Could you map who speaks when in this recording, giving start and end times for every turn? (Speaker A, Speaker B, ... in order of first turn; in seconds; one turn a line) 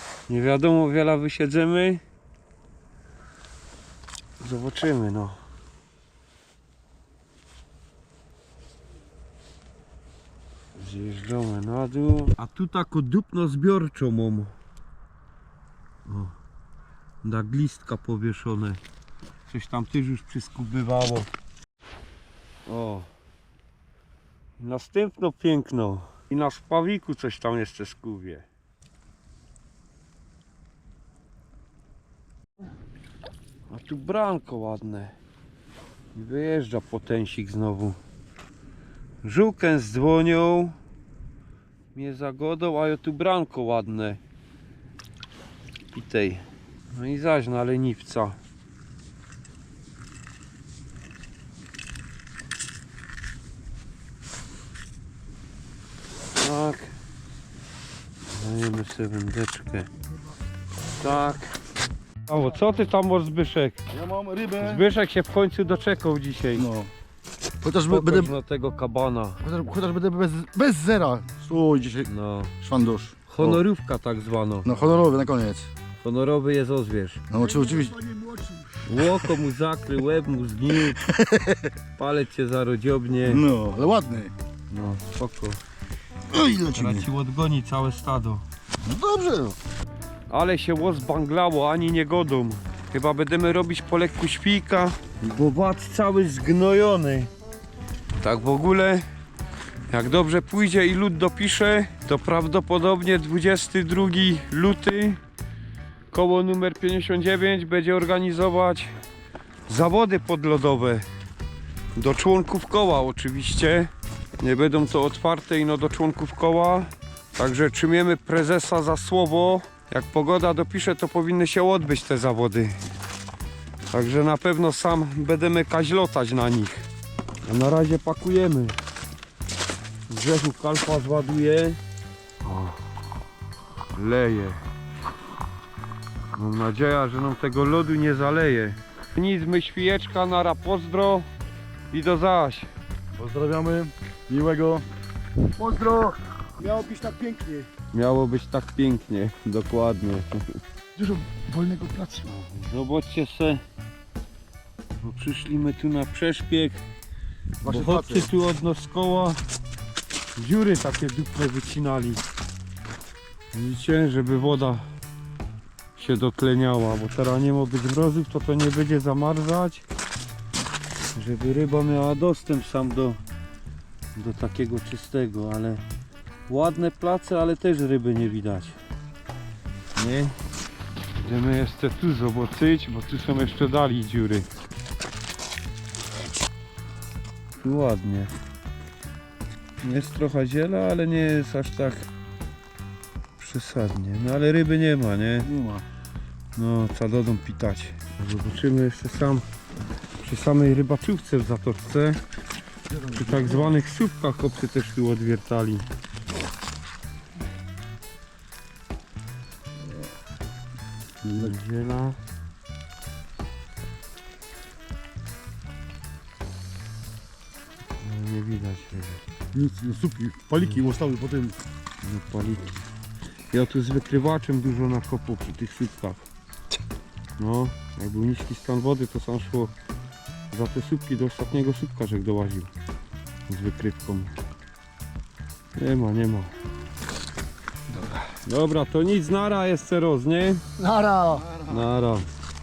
Speaker A: 0.3-2.0
Speaker A: 4.4-5.4
Speaker A: 10.7-14.5
Speaker A: 16.1-16.3
Speaker A: 17.2-18.8
Speaker A: 19.5-21.3
Speaker A: 22.6-23.1
Speaker A: 24.6-28.4
Speaker A: 33.7-35.1
Speaker A: 36.1-38.0
Speaker A: 39.2-40.8
Speaker A: 41.9-44.2
Speaker A: 45.9-48.4
Speaker A: 56.4-56.9
Speaker A: 58.3-59.9
Speaker A: 60.9-61.5
Speaker A: 62.2-63.8
Speaker B: 63.9-64.9
Speaker A: 64.6-66.7
Speaker B: 66.5-66.9
Speaker B: 67.6-68.3
Speaker A: 67.9-69.4
Speaker B: 69.4-72.1
Speaker A: 72.0-72.5
Speaker B: 72.6-73.6
Speaker A: 73.3-74.7
Speaker B: 74.6-75.7
Speaker A: 76.0-77.2
Speaker B: 77.3-77.9
Speaker C: 77.3-78.9
Speaker A: 78.8-81.0
Speaker B: 81.0-81.7
Speaker A: 82.0-83.4
Speaker B: 83.2-84.3
Speaker A: 84.7-85.6
Speaker B: 86.3-87.1
Speaker A: 86.7-88.4
Speaker B: 88.8-89.6
Speaker A: 90.3-97.3
Speaker A: 98.2-99.0
Speaker A: 99.9-105.2
Speaker A: 106.1-108.9
Speaker A: 109.7-111.0
Speaker A: 112.0-122.8
Speaker A: 123.9-126.9
Speaker A: 127.5-128.8
Speaker A: 130.1-131.8
Speaker A: 132.4-132.8
Speaker A: 133.9-134.6
Speaker A: 136.3-141.3
Speaker A: 141.9-142.7
Speaker B: 143.2-144.8
Speaker C: 145.6-147.7
Speaker A: 147.9-150.6
Speaker C: 150.9-152.3
Speaker A: 152.2-153.6
Speaker A: 155.0-156.8
Speaker B: 157.6-158.3
Speaker A: 157.7-159.4
Speaker A: 160.3-162.2
Speaker A: 163.5-164.8
Speaker A: 165.9-169.8
Speaker A: 171.1-173.2
Speaker A: 174.1-175.8
Speaker A: 176.5-178.8
Speaker A: 179.9-180.3
Speaker A: 181.1-184.5
Speaker A: 187.6-188.3
Speaker A: 189.8-192.1
Speaker A: 193.4-195.5
Speaker B: 195.4-195.8
Speaker A: 196.6-199.4
Speaker A: 200.2-202.2
Speaker B: 202.9-203.7
Speaker A: 203.1-205.8
Speaker A: 211.2-212.2
Speaker A: 218.0-219.2
Speaker B: 219.5-221.6
Speaker A: 222.0-222.8
Speaker A: 223.5-226.3
Speaker A: 227.4-229.7
Speaker A: 230.5-232.7
Speaker A: 233.5-234.3
Speaker A: 235.8-236.5
Speaker C: 237.9-238.2
Speaker A: 238.4-240.6
Speaker C: 240.8-241.5
Speaker B: 241.3-241.9
Speaker A: 241.7-242.2